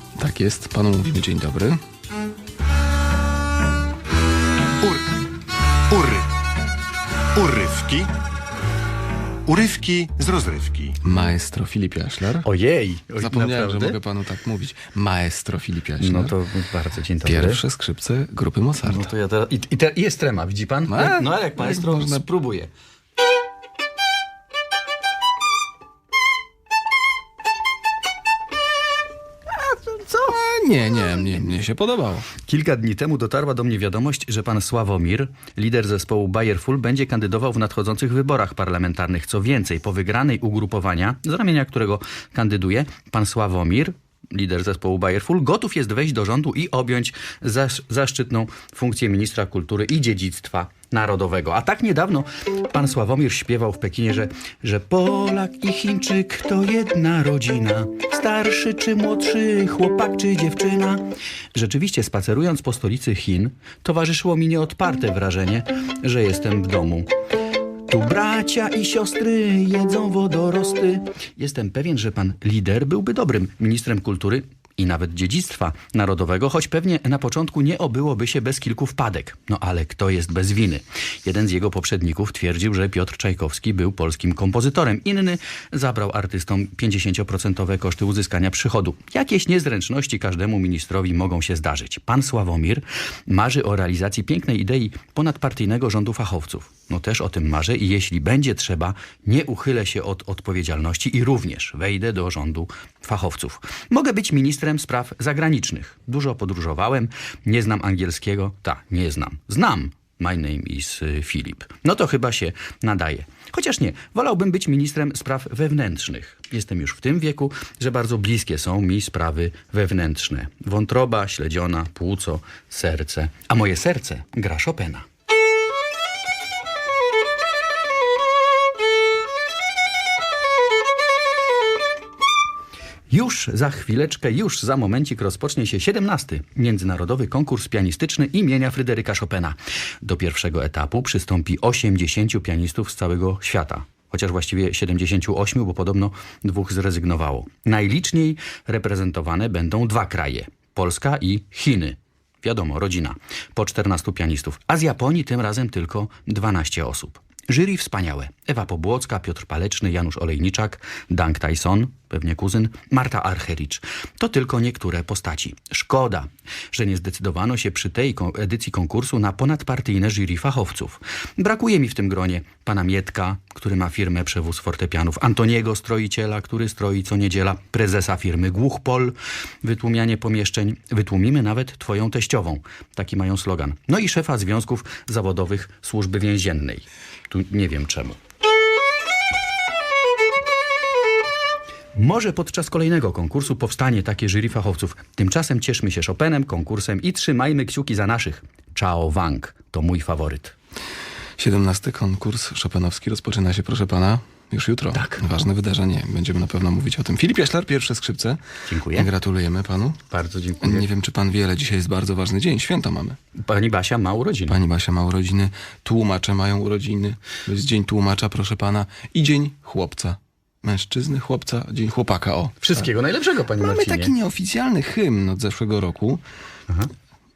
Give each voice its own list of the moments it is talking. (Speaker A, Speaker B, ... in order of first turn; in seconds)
Speaker A: 0.1-1.8, 11.0-12.5, 13.2-16.3, 17.2-19.1, 20.9-22.2, 29.9-32.3, 201.4-208.4, 208.9-210.0, 210.6-213.2, 214.5-222.9, 223.6-226.2
Speaker B: 4.8-5.1, 5.9-6.3, 7.3-8.1, 9.4-11.0
Speaker C: 12.4-14.0, 16.0-17.6, 18.8-22.7, 32.4-67.1, 67.9-125.0, 133.1-188.2, 191.9-200.6, 208.7-209.1, 210.1-210.9, 213.4-214.6, 222.6-224.1